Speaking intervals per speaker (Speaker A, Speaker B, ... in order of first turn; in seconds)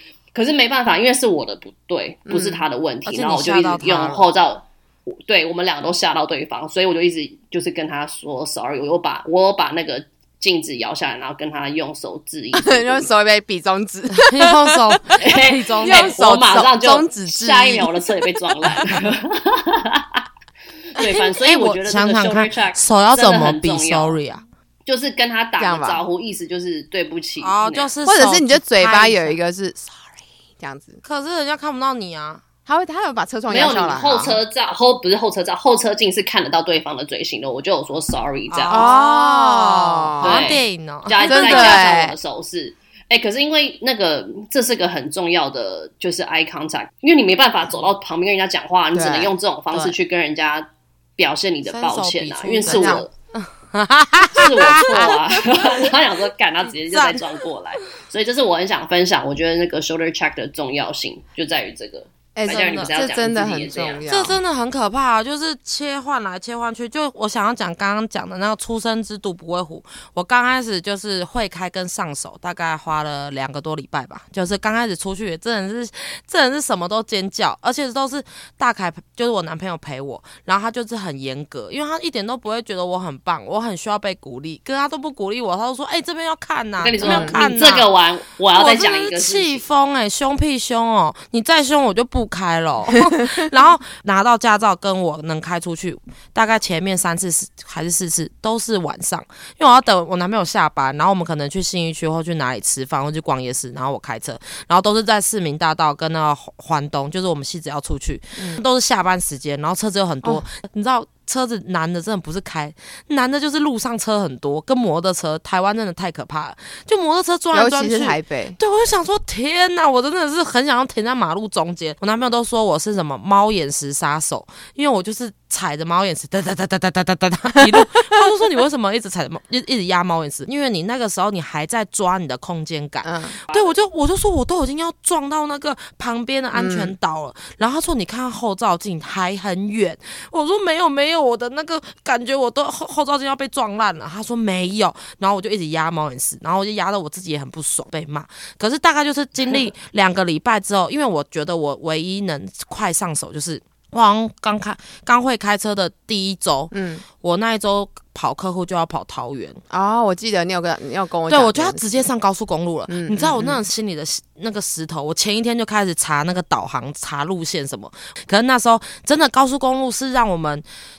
Speaker A: 0.3-13.0, 15.2-20.2, 20.9-24.2, 24.9-27.9, 33.5-38.9, 40.2-53.1, 54.3-64.0, 86.8-89.6, 133.5-133.7
Speaker B: 2.3-2.6, 12.6-15.1, 15.8-18.1, 25.6-26.0, 28.0-30.0, 30.6-31.0, 32.6-34.4, 38.7-40.6, 41.2-42.1, 48.9-49.3, 52.6-53.0, 62.4-64.4, 87.0-87.4, 117.5-118.6, 127.6-127.8, 133.0-133.4, 136.5-136.9, 156.7-157.0, 159.7-162.1, 162.9-163.6
Speaker C: 3.0-4.2, 14.1-16.2, 21.0-24.4, 27.4-29.4, 31.0-32.4, 38.5-41.8, 51.6-55.9, 56.6-57.4, 62.5-62.9, 64.1-87.9, 88.5-159.6, 161.3-170.6